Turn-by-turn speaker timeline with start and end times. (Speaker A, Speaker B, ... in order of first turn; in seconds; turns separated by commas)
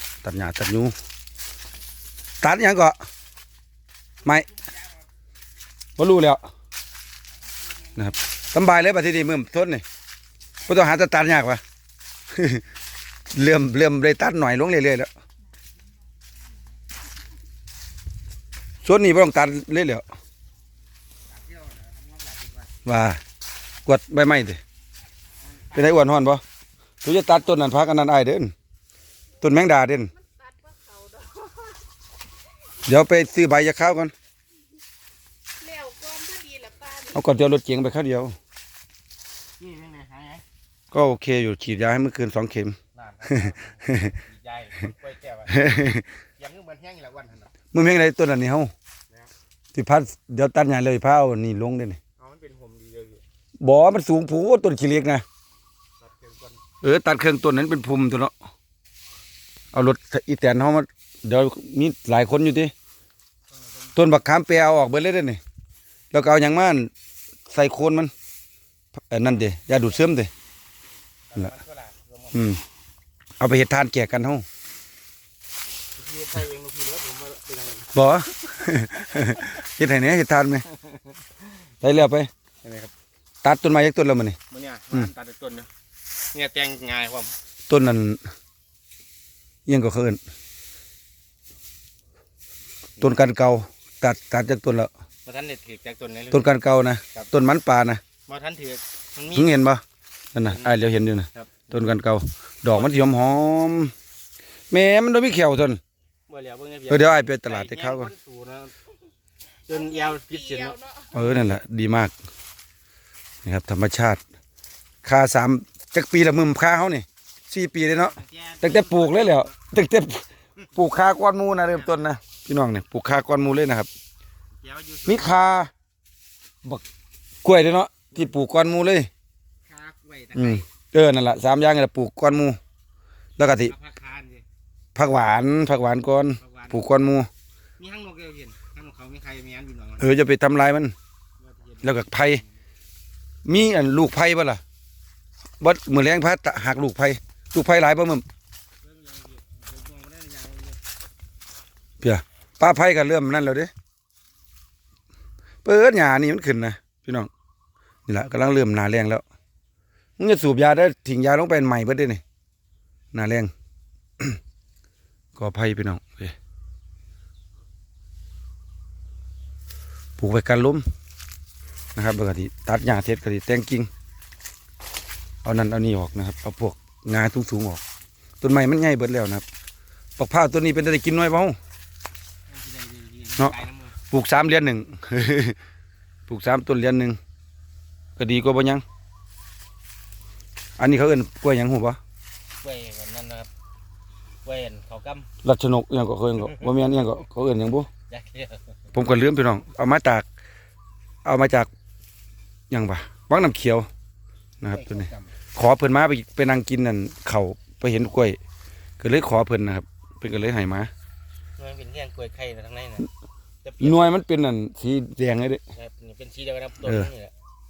Speaker A: 0.2-0.9, Speaker A: 2.4-3.0, Speaker B: 4.2-4.9, Speaker A: 6.0-6.5, Speaker B: 7.6-8.8, Speaker A: 8.0-9.8, Speaker A: 10.7-11.6, Speaker A: 12.3-12.7, Speaker A: 13.3-15.1, Speaker A: 18.8-20.1, Speaker B: 21.3-22.8, Speaker A: 22.9-23.2, Speaker A: 23.9-24.6, Speaker B: 25.4-26.1, Speaker A: 25.7-26.4, Speaker A: 27.0-28.5, Speaker A: 29.4-30.1, Speaker C: 30.2-31.8, Speaker A: 32.8-34.1, Speaker C: 35.6-37.1, Speaker A: 37.0-38.4, Speaker B: 39.6-40.4, Speaker A: 40.9-44.1, Speaker B: 42.9-47.7, Speaker A: 45.5-46.1, Speaker A: 47.7-48.7, Speaker A: 49.7-52.0, Speaker B: 52.2-53.2, Speaker A: 53.6-55.2, Speaker B: 56.0-56.7, Speaker A: 56.8-58.3, Speaker A: 59.7-62.7, Speaker B: 63.8-64.2, Speaker A: 64.0-65.4, Speaker A: 66.1-66.9, Speaker A: 67.5-68.1, Speaker A: 69.1-70.3, Speaker B: 69.3-70.1, Speaker B: 71.3-72.6, Speaker A: 72.3-72.6, Speaker A: 73.4-74.5, Speaker B: 76.0-77.9, Speaker A: 77.9-80.7, Speaker B: 80.7-81.0, Speaker A: 81.8-82.3, Speaker B: 82.6-82.9, Speaker A: 83.4-84.4, Speaker B: 84.5-85.7, Speaker B: 86.3-87.3, Speaker A: 87.7-88.2, Speaker A: 89.7-90.2, Speaker A: 93.0-94.9, Speaker B: 95.2-97.3, Speaker A: 96.3-98.0, Speaker B: 98.1-99.7, Speaker A: 99.3-99.8, Speaker A: 100.3-103.9, Speaker B: 100.4-101.7, Speaker B: 102.7-103.2, Speaker A: 104.7-105.8, Speaker B: 106.3-108.7, Speaker A: 106.9-108.1, Speaker B: 109.7-111.5, Speaker A: 111.1-112.1, Speaker A: 113.4-114.2, Speaker A: 115.0-123.9, Speaker B: 117.7-119.7, Speaker B: 121.6-122.0, Speaker B: 124.6-125.4, Speaker A: 125.1-125.7, Speaker A: 127.4-129.1, Speaker B: 128.1-128.4, Speaker B: 129.7-130.8, Speaker A: 130.3-132.6, Speaker A: 133.4-133.7, Speaker B: 133.5-134.5, Speaker A: 134.9-137.3, Speaker B: 136.4-136.9, Speaker B: 137.8-140.1, Speaker A: 140.0-140.9, Speaker B: 141.4-142.5, Speaker A: 141.8-142.4, Speaker A: 143.4-144.6, Speaker A: 145.6-148.2, Speaker B: 148.8-150.8, Speaker A: 152.0-153.7, Speaker A: 155.6-157.3, Speaker A: 158.1-159.2, Speaker A: 160.2-162.2, Speaker A: 163.1-163.5, Speaker A: 165.3-166.4, Speaker A: 170.2-170.8, Speaker A: 171.9-173.9, Speaker A: 175.4-177.8, Speaker A: 178.4-179.4, Speaker A: 180.2-181.6, Speaker B: 182.5-184.0, Speaker A: 184.1-185.6, Speaker A: 186.3-187.2, Speaker A: 188.2-188.8, Speaker A: 190.8-192.0, Speaker B: 192.6-193.5, Speaker B: 194.4-195.3, Speaker A: 195.4-197.9, Speaker B: 196.5-197.0, Speaker B: 198.0-198.6, Speaker A: 198.9-200.2, Speaker A: 201.2-201.7, Speaker A: 202.7-203.9, Speaker A: 204.6-208.4, Speaker B: 204.6-205.3, Speaker A: 209.0-210.9, Speaker B: 211.6-213.1, Speaker B: 213.6-214.2, Speaker A: 213.8-215.6, Speaker B: 215.7-217.3, Speaker A: 216.8-217.1